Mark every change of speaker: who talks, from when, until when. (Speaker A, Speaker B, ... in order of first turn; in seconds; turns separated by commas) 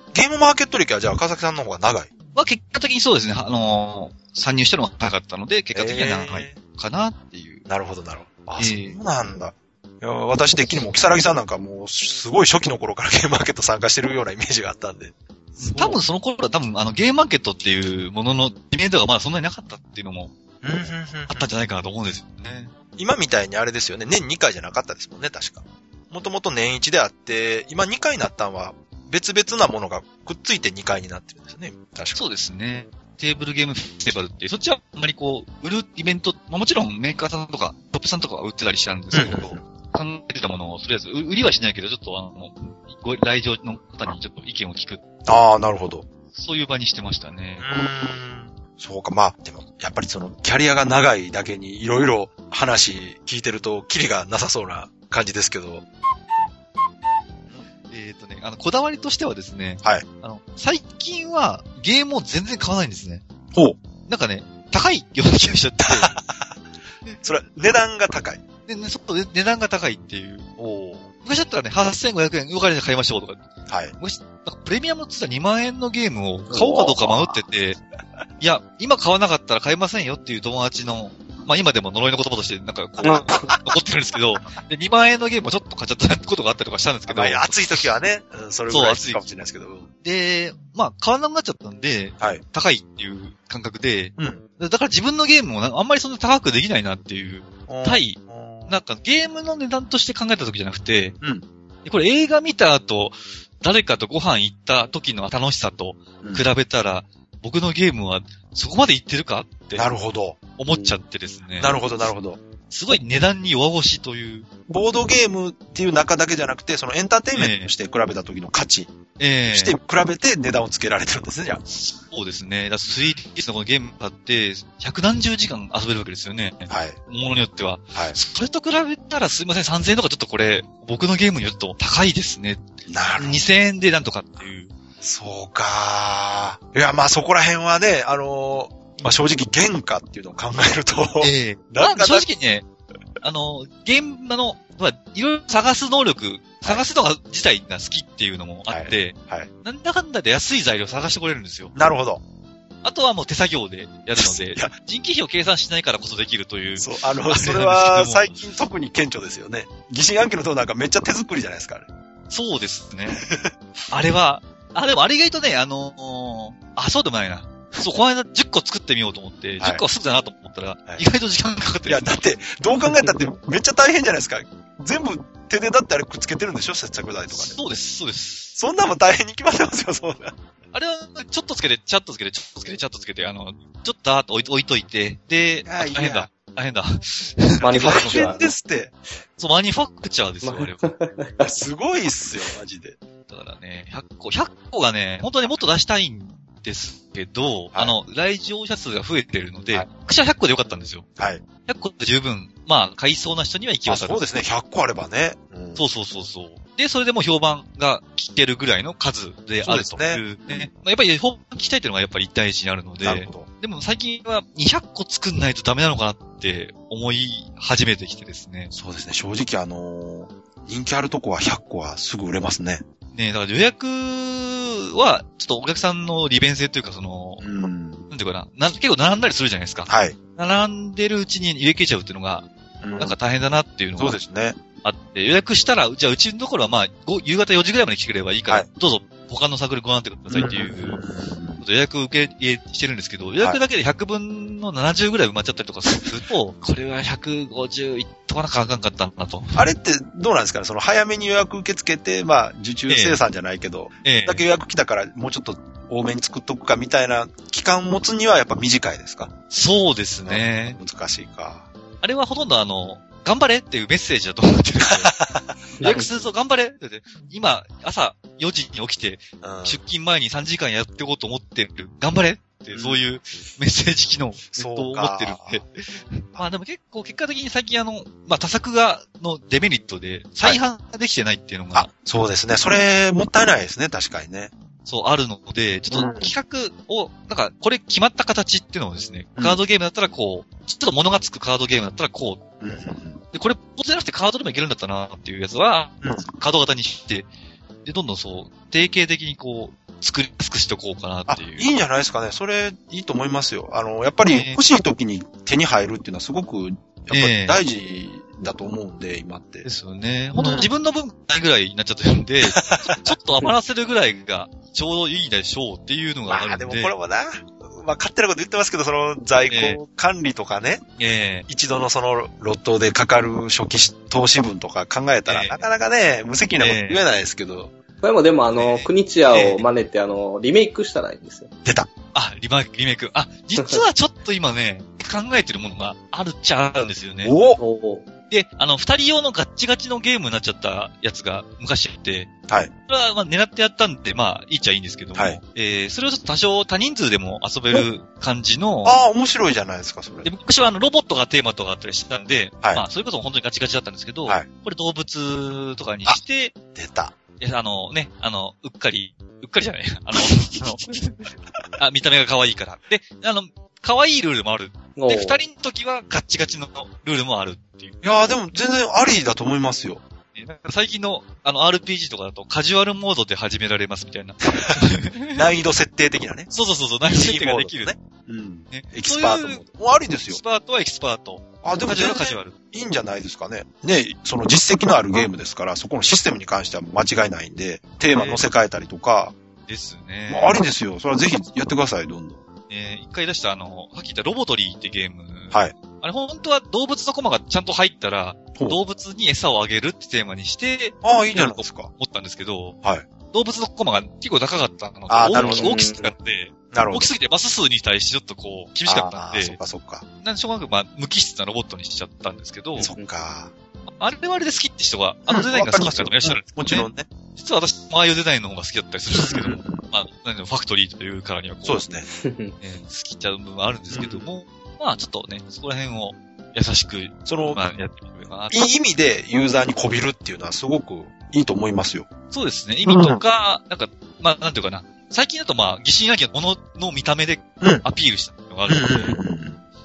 Speaker A: 0.1-2.1, Speaker B: 2.3-7.7, Speaker A: 5.7-6.6, Speaker A: 7.7-16.0, Speaker B: 8.6-9.0, Speaker B: 15.6-20.3, Speaker A: 20.6-21.5, Speaker B: 21.3-22.7, Speaker A: 23.0-32.2, Speaker B: 32.1-45.0, Speaker A: 39.1-39.6, Speaker A: 45.2-46.0, Speaker B: 46.3-47.7, Speaker A: 47.6-55.9, Speaker B: 57.9-63.2, Speaker B: 64.1-66.2, Speaker A: 65.8-66.5, Speaker A: 67.2-68.4, Speaker B: 68.7-77.8, Speaker A: 70.6-71.0, Speaker A: 73.7-73.9, Speaker A: 76.8-77.4, Speaker B: 78.4-87.9, Speaker A: 87.1-89.9, Speaker B: 88.7-89.2, Speaker B: 90.0-101.2, Speaker A: 94.2-94.4, Speaker A: 97.7-98.8, Speaker B: 101.8-109.9, Speaker A: 109.7-110.4, Speaker B: 110.6-111.8, Speaker A: 111.6-112.4, Speaker B: 112.7-114.5, Speaker A: 114.7-118.9, Speaker B: 117.3-117.7, Speaker B: 119.2-119.8, Speaker A: 119.5-121.6, Speaker B: 121.7-134.7, Speaker A: 126.7-127.0, Speaker A: 132.9-133.4, Speaker A: 135.0-142.2, Speaker B: 141.2-142.7, Speaker B: 143.2-151.7, Speaker A: 148.7-149.5, Speaker A: 151.7-152.2, Speaker B: 152.8-158.3, Speaker A: 154.2-154.7, Speaker A: 156.8-161.9, Speaker B: 162.3-163.2, Speaker A: 163.2-163.5, Speaker B: 163.9-172.2, Speaker A: 171.9-177.6, Speaker B: 177.3-178.6, Speaker A: 178.6-180.3, Speaker B: 180.7-188.3, Speaker A: 185.7-186.3, Speaker C: 187.6-188.5, Speaker A: 187.7-188.9, Speaker B: 189.4-190.9, Speaker C: 190.4-191.6, Speaker A: 191.4-193.0, Speaker B: 193.3-201.1, Speaker A: 201.2-201.4, Speaker B: 201.7-204.3, Speaker A: 203.9-205.8, Speaker B: 205.8-218.7, Speaker A: 209.6-210.7, Speaker A: 213.0-213.5, Speaker A: 218.7-222.8, Speaker B: 223.1-227.4, Speaker A: 227.4-228.0, Speaker B: 228.1-232.5, Speaker A: 229.9-230.2, Speaker A: 232.8-233.2, Speaker B: 233.0-234.2, Speaker A: 234.0-234.6, Speaker B: 234.8-241.0, Speaker A: 240.3-241.6, Speaker B: 241.6-249.6, Speaker A: 249.5-259.3, Speaker B: 252.9-253.2, Speaker B: 254.0-254.4, Speaker B: 259.5-260.8, Speaker A: 260.2-261.7, Speaker B: 262.0-265.1, Speaker A: 264.8-265.6, Speaker C: 265.8-266.1, Speaker B: 265.8-281.9, Speaker A: 269.4-269.8, Speaker A: 272.7-273.0, Speaker A: 274.5-275.6, Speaker A: 281.7-284.5, Speaker B: 284.9-292.4, Speaker A: 285.9-286.3, Speaker A: 292.6-293.2, Speaker B: 293.3-297.3, Speaker A: 296.0-296.3, Speaker B: 297.8-301.7, Speaker A: 301.3-309.6, Speaker B: 304.2-304.6, Speaker B: 307.1-307.6, Speaker B: 309.6-316.9, Speaker A: 310.3-310.7, Speaker A: 312.5-313.1, Speaker A: 316.3-320.8, Speaker B: 319.5-319.8, Speaker B: 321.0-321.5, Speaker A: 321.5-327.7, Speaker B: 325.2-325.7, Speaker B: 326.6-327.0, Speaker C: 328.0-331.5, Speaker B: 328.5-329.6, Speaker B: 332.1-337.3, Speaker A: 337.2-337.6, Speaker C: 337.6-338.1, Speaker B: 338.3-342.3, Speaker B: 342.9-349.0, Speaker A: 345.1-345.4, Speaker A: 348.8-350.3, Speaker B: 350.2-356.5, Speaker A: 356.7-357.1, Speaker B: 357.4-368.1, Speaker C: 364.9-365.4, Speaker A: 368.0-370.0, Speaker B: 370.3-375.5, Speaker A: 375.3-376.5, Speaker B: 376.5-377.9, Speaker A: 377.0-380.4, Speaker B: 378.7-379.6, Speaker B: 380.3-382.5, Speaker A: 381.6-389.3, Speaker B: 388.1-388.4, Speaker B: 389.7-390.6, Speaker A: 390.3-392.4, Speaker B: 392.7-402.8, Speaker A: 401.0-401.9, Speaker B: 403.3-409.6, Speaker A: 405.1-405.7, Speaker C: 405.3-406.1, Speaker A: 406.7-407.1, Speaker A: 408.9-410.0, Speaker B: 410.2-412.9, Speaker A: 412.8-413.5, Speaker C: 412.8-413.1, Speaker B: 413.9-421.8, Speaker A: 415.3-417.1, Speaker A: 419.2-419.8, Speaker A: 421.6-422.1, Speaker C: 422.1-422.5, Speaker B: 422.6-428.7, Speaker A: 423.9-424.2, Speaker A: 427.2-427.6, Speaker A: 428.5-432.1, Speaker B: 432.3-439.2, Speaker A: 432.8-433.2, Speaker A: 438.7-439.6